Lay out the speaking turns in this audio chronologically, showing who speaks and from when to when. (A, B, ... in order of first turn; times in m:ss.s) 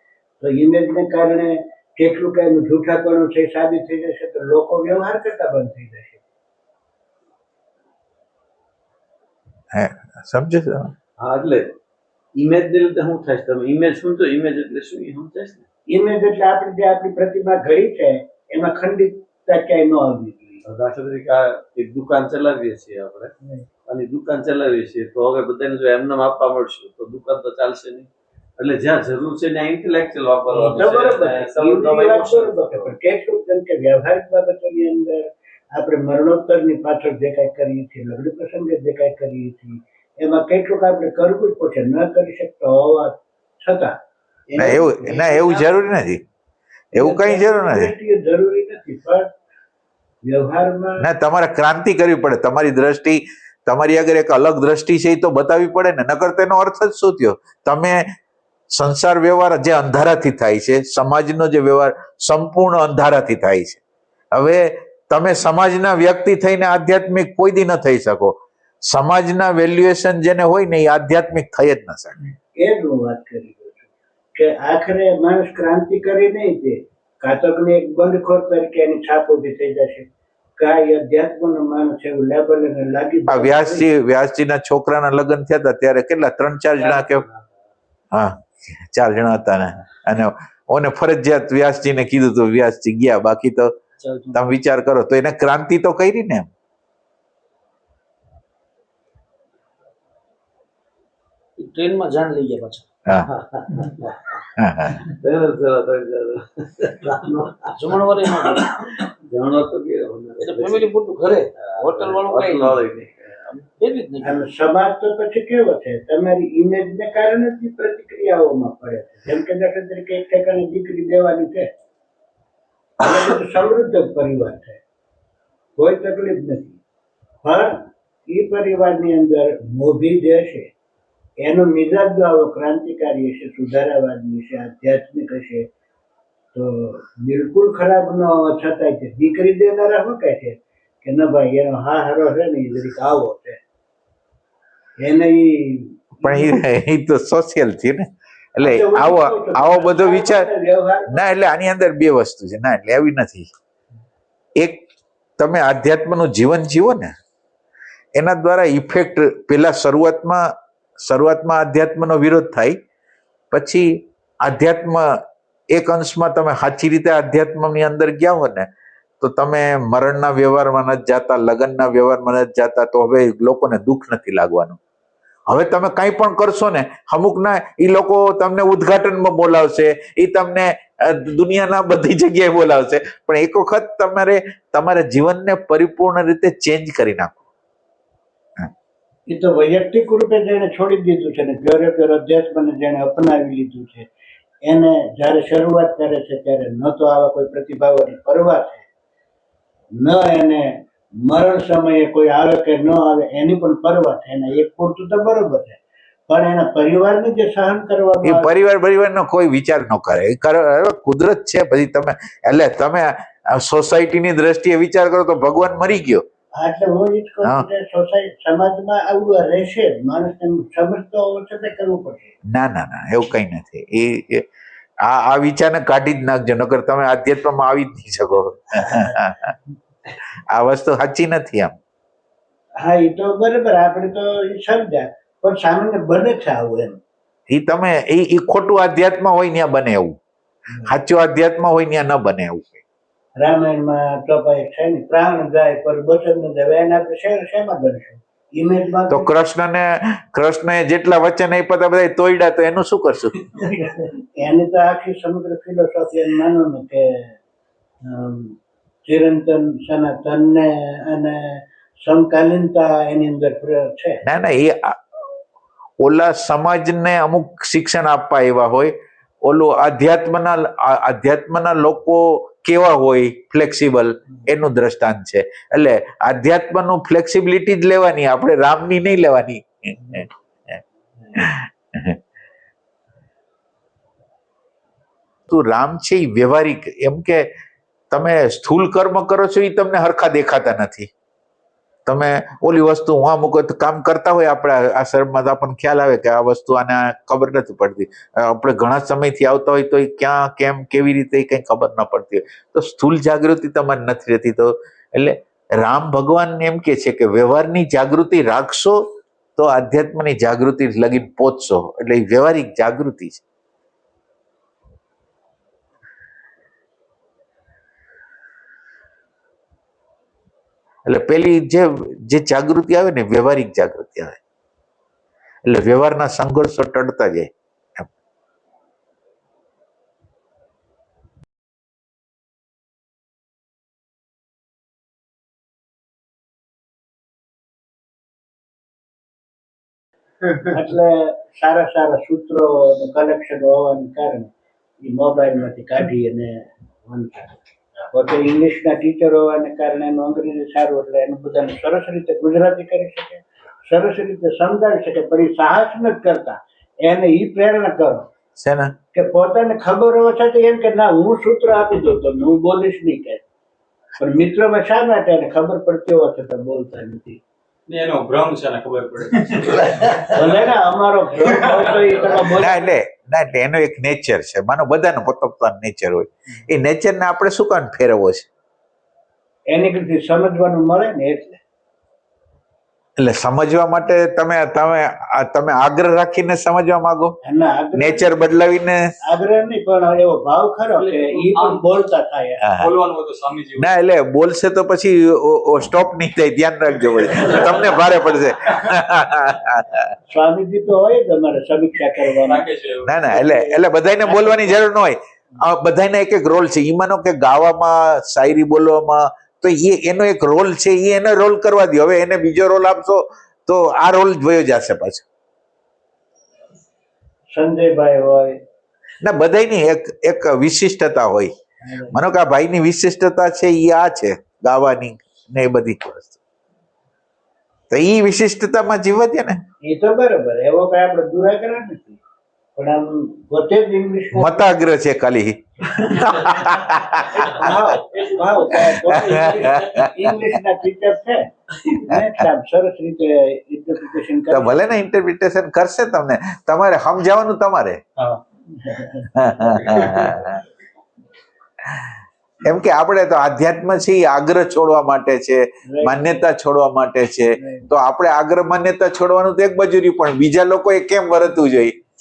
0:00.4-0:06.2 A
0:09.7-0:10.9 B
0:11.2-0:11.7 C
0:12.4-0:15.6 C
0:15.9-0:20.6 A
0:20.6-0:23.3 C
0:23.9-0:33.0 C
0:30.5-0:44.0 A
0:44.5-0:45.4 C
0:44.6-0:46.2 B
0:44.6-0:44.9 A
0:45.4-0:45.7 A
0:47.0-0:47.9 B
0:47.0-0:49.4 A
0:50.2-0:51.0 A
0:51.0-0:58.1 B
0:58.7-1:03.8 B
1:04.3-1:08.4 B
1:08.9-1:12.3 B
1:12.6-1:23.9 A
1:23.3-1:27.2 B
1:28.1-1:33.8 B
1:34.0-1:34.5 D
1:34.3-1:36.5 B
1:41.6-1:42.9 D
1:43.2-1:44.4 C
1:44.6-1:45.0 B
1:45.0-1:50.9 C
1:47.7-1:49.0 D
1:50.4-1:52.8 D
1:51.6-1:53.4 C
1:53.8-1:54.4 D
1:54.2-2:01.7 A
2:03.0-2:04.8 A
2:05.8-2:06.8 A
2:07.4-2:10.7 A
2:11.4-2:15.7 A
2:16.6-2:23.6 A
2:25.0-2:26.6 A
2:26.2-2:30.5 B
2:28.6-2:31.2 A
2:31.1-2:33.5 B
2:34.6-2:34.8 B
2:35.4-2:37.2 B
2:38.2-2:42.8 B
2:43.5-2:45.2 B
2:45.7-2:48.7 B
2:49.2-2:54.8 B
2:55.5-3:07.4 B
3:09.3-3:14.1 A
3:14.7-3:18.8 A
3:20.0-3:28.5 A
3:28.2-3:36.2 B
3:36.6-3:42.4 A
3:42.5-3:44.5 B
3:45.0-3:49.5 B
3:48.8-3:49.1 A
3:50.5-3:51.8 B
3:52.8-3:57.0 A
3:57.5-4:00.2 B
4:00.8-4:02.8 B
4:03.4-4:09.3 A
4:09.1-4:13.4 B
4:13.6-4:17.3 A
4:18.0-4:18.6 A
4:19.1-4:24.2 A
4:24.2-4:25.0 B
4:26.0-4:40.8 B
4:41.3-4:42.2 B
4:45.5-4:47.5 B
4:48.1-4:51.1 B
4:52.1-5:13.4 B
5:21.0-5:24.4 B
5:25.7-5:28.1 B
5:40.7-5:44.5 A
5:45.0-5:47.6 A
5:48.1-5:58.3 A
5:58.6-5:58.9 B
5:59.1-6:03.4 A
6:04.2-6:07.4 A
6:07.9-6:10.7 E
6:10.3-6:12.8 A
6:11.4-6:12.5 E
6:12.6-6:18.5 B
6:19.7-6:21.6 A
6:23.2-6:27.4 B
6:27.4-6:28.3 A
6:28.0-6:29.1 B
6:29.3-6:32.6 A
6:30.9-6:32.0 E
6:32.6-6:32.9 B
6:32.7-6:33.9 E
6:33.8-6:40.1 B
6:40.3-6:42.7 A
6:42.4-6:43.2 E
6:43.0-6:55.2 B
6:43.3-6:44.8 A
6:57.5-6:58.6 A
6:59.2-7:01.5 B
7:01.8-7:02.2 A
7:02.1-7:06.4 B
7:07.9-7:09.6 B
7:09.9-7:12.2 A
7:12.8-7:14.7 A
7:14.3-7:18.0 B
7:17.3-7:24.8 A
7:18.7-7:20.5 B
7:22.1-7:22.4 B
7:24.5-7:28.0 B
7:28.8-7:29.3 A
7:29.4-7:30.6 B
7:29.6-7:30.6 E
7:31.8-7:42.0 B
7:35.9-7:36.4 A
7:37.6-7:37.8 A